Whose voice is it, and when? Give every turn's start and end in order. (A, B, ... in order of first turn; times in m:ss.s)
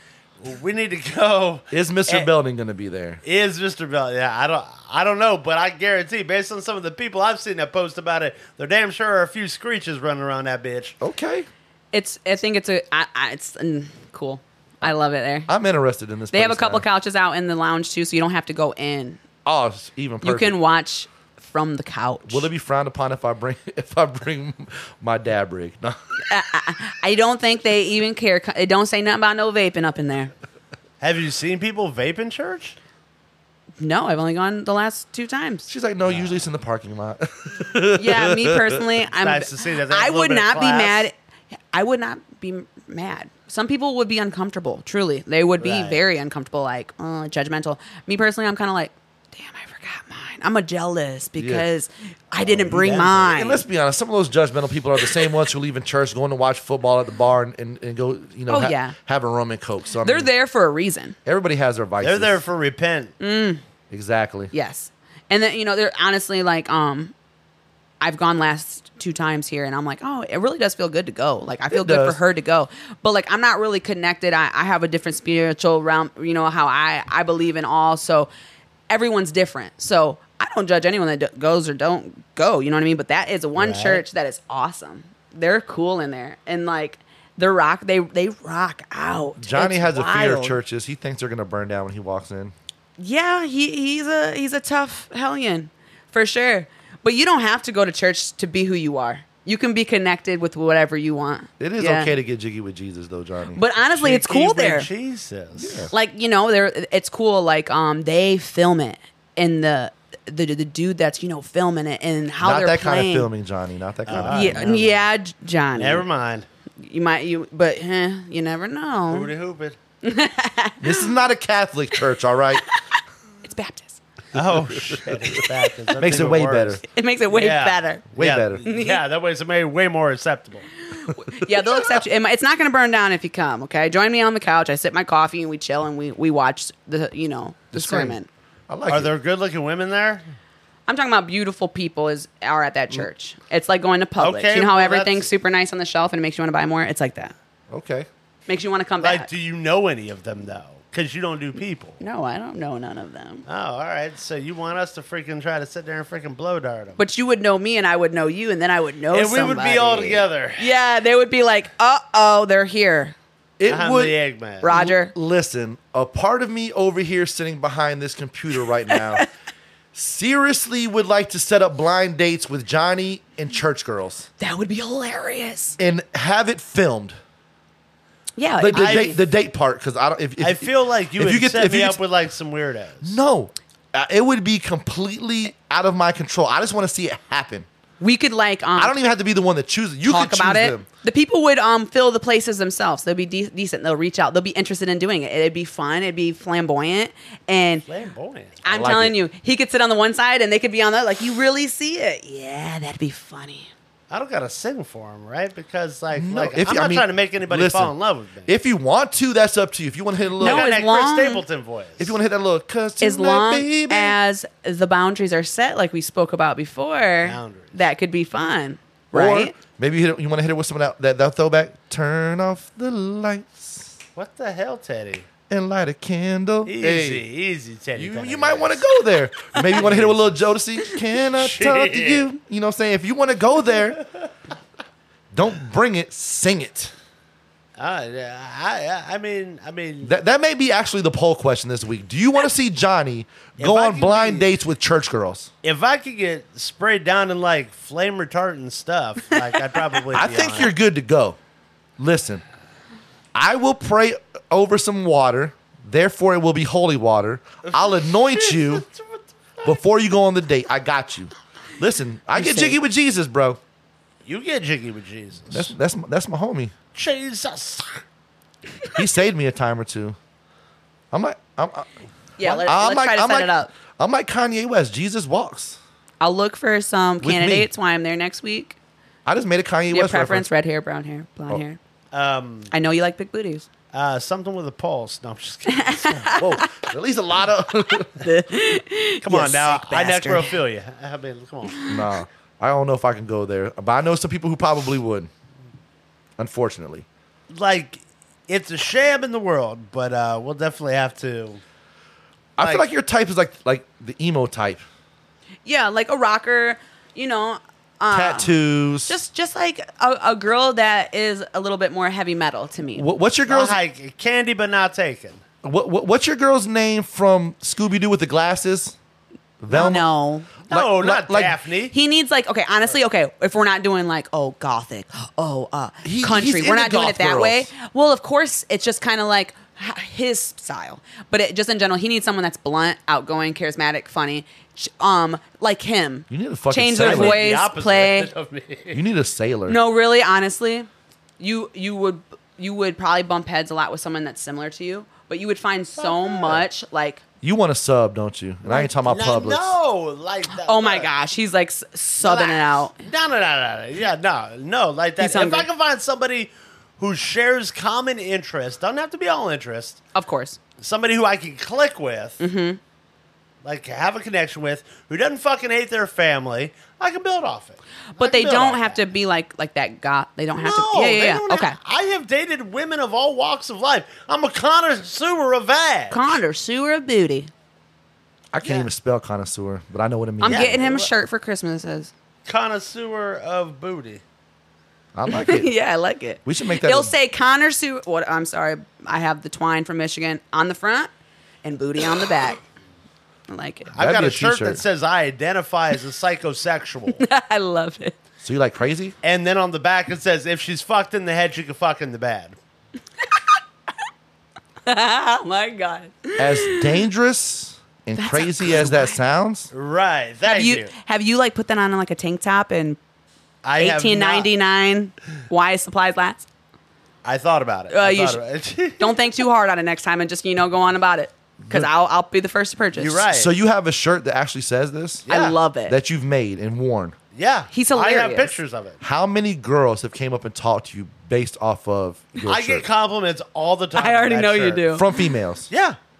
0:00.4-0:02.3 A
0:01.7-0:03.2 B
0:03.2-0:11.0 A
0:11.0-0:11.5 B
0:11.9-0:15.5 C
0:15.5-0:16.8 B
0:16.3-0:19.2 C
0:19.4-0:20.6 B
0:20.2-0:22.5 C
0:22.3-0:26.0 B
0:26.3-0:30.3 C
0:31.0-0:32.8 A
0:33.8-0:35.7 C
0:35.7-0:38.8 B
0:36.0-0:36.4 A
0:38.0-0:41.1 C
0:39.2-0:41.0 A
0:41.7-0:53.6 C
0:45.6-0:46.0 A
0:51.4-0:51.6 B
0:52.5-0:53.3 A
0:52.7-1:00.3 B
0:58.5-0:58.9 C
1:00.0-1:01.2 C
1:01.2-1:02.4 B
1:02.0-1:03.1 A
1:03.2-1:03.6 C
1:03.9-1:04.5 B
1:04.5-1:07.1 C
1:08.0-1:18.3 C
1:11.7-1:12.2 B
1:18.9-1:30.6 C
1:23.6-1:24.0 A
1:29.4-1:32.5 B
1:33.0-1:42.1 C
1:41.6-1:43.6 B
1:43.5-1:44.9 C
1:43.9-1:45.9 A
1:45.6-1:45.9 B
1:45.9-1:53.3 C
1:52.4-1:54.7 B
1:54.1-1:55.0 A
1:54.3-1:56.0 C
1:55.8-1:56.4 A
1:56.8-1:59.3 C
1:59.1-1:59.8 A
2:00.0-2:01.1 C
2:00.8-2:02.6 B
2:03.4-2:04.0 C
2:04.3-2:10.7 A
2:04.3-2:05.1 B
2:06.0-2:06.8 B
2:06.9-2:08.0 C
2:08.1-2:08.6 B
2:08.6-2:09.0 C
2:10.9-2:18.3 C
2:17.7-2:18.2 B
2:18.7-2:19.1 B
2:18.9-2:20.2 A
2:20.9-2:27.3 C
2:24.2-2:25.3 A
2:27.7-2:28.1 B
2:28.5-2:29.3 C
2:29.0-2:32.0 A
2:32.0-2:33.4 C
2:33.4-2:37.0 A
2:37.0-2:43.1 C
2:39.1-2:40.7 A
2:43.6-2:49.3 B
2:43.7-2:44.7 A
2:44.6-2:45.1 C
2:48.9-2:49.2 C
2:49.9-2:54.3 B
2:54.4-2:55.8 C
2:55.8-2:57.2 B
2:58.4-2:59.2 C
2:58.6-3:02.0 B
2:58.7-2:59.2 A
3:00.4-3:03.2 A
3:03.0-3:07.6 B
3:08.0-3:09.0 C
3:08.8-3:10.8 B
3:10.0-3:17.8 C
3:17.8-3:18.6 A
3:18.6-3:23.7 C
3:18.6-3:19.2 B
3:24.1-3:28.5 A
3:26.1-3:27.9 B
3:28.4-3:30.7 B
3:30.4-3:31.4 C
3:30.4-3:32.2 A
3:32.0-3:34.2 B
3:33.0-3:39.5 C
3:37.2-3:37.8 A
3:39.1-3:44.0 B
3:44.2-3:45.2 A
3:45.5-3:47.2 B
3:46.6-3:48.8 A
3:48.0-3:54.0 B
3:49.7-3:50.4 A
3:51.3-3:52.3 A
3:55.3-3:56.9 B
3:57.8-4:00.1 A
4:00.0-4:05.5 B
4:03.6-4:04.5 A
4:05.6-4:10.7 A
4:10.1-4:11.4 B
4:12.0-4:12.4 B
4:13.3-4:18.8 B
4:17.6-4:19.8 A
4:19.6-4:23.6 B
4:22.3-4:22.8 C
4:24.2-4:25.7 A
4:25.5-4:26.7 B
4:26.9-4:28.0 A
4:28.9-4:30.2 B
4:31.1-4:35.8 B
4:32.4-4:33.7 C
4:36.2-4:38.8 C
4:37.2-4:37.7 B
4:39.2-4:40.5 B
4:39.9-4:41.8 C
4:42.1-4:42.7 A
4:42.7-4:43.6 C
4:43.9-4:46.4 A
4:45.7-4:46.8 C
4:46.3-4:48.2 B
4:48.2-4:50.6 C
4:49.2-4:51.8 A
4:51.7-4:52.0 C
4:51.9-4:55.3 B
4:56.4-4:57.0 B
4:57.5-5:01.6 A
5:02.6-5:04.8 B
5:02.6-5:02.8 A
5:05.6-5:13.0 C
5:08.1-5:09.2 B
5:12.9-5:13.8 B
5:13.5-5:15.4 A
5:15.6-5:19.0 B
5:19.6-5:20.1 B
5:19.7-5:20.5 C
5:20.7-5:21.9 A
5:20.7-5:21.6 B
5:21.9-5:38.3 C
5:26.0-5:27.7 B
5:36.3-5:37.4 B
5:37.0-5:39.0 A
5:38.9-5:39.8 B
5:39.7-5:47.2 C
5:46.0-5:46.6 A
5:47.4-5:49.8 B
5:48.7-5:51.1 A
5:50.5-5:52.9 C
5:52.2-6:00.0 A
5:55.2-5:55.7 C
6:00.1-6:00.6 C
6:00.8-6:02.4 A
6:02.4-6:02.8 C
6:03.6-6:09.0 A
6:08.1-6:11.8 C
6:10.6-6:16.4 A
6:16.1-6:17.5 C
6:18.5-6:21.0 B
6:18.6-6:18.9 A
6:20.4-6:22.1 C
6:20.4-6:21.1 A
6:22.5-6:24.2 A
6:25.1-6:25.7 B
6:25.3-6:31.1 C
6:26.4-6:27.1 B
6:31.6-6:32.6 C
6:33.5-6:33.9 C
6:33.9-6:34.8 B
6:33.9-6:37.2 A
6:37.2-6:38.1 C
6:38.4-6:39.1 B
6:39.2-6:42.6 A
6:44.8-6:47.0 C
6:46.4-6:49.7 B
6:48.1-6:49.1 C
6:49.7-6:50.9 A
6:50.4-6:53.0 C
6:53.6-6:54.5 A
6:53.8-6:56.4 C
6:57.2-6:59.2 A
6:57.9-6:58.4 C
6:59.0-7:03.2 C
7:01.6-7:01.9 B
7:03.0-7:03.5 A
7:03.3-7:05.3 B
7:05.2-7:05.6 A
7:05.3-7:06.0 C
7:05.9-7:07.2 B
7:07.3-7:09.0 A
7:07.7-7:08.5 C
7:09.0-7:12.8 B
7:12.4-7:14.9 A
7:14.0-7:15.0 C
7:14.9-7:15.7 B
7:15.7-7:16.0 A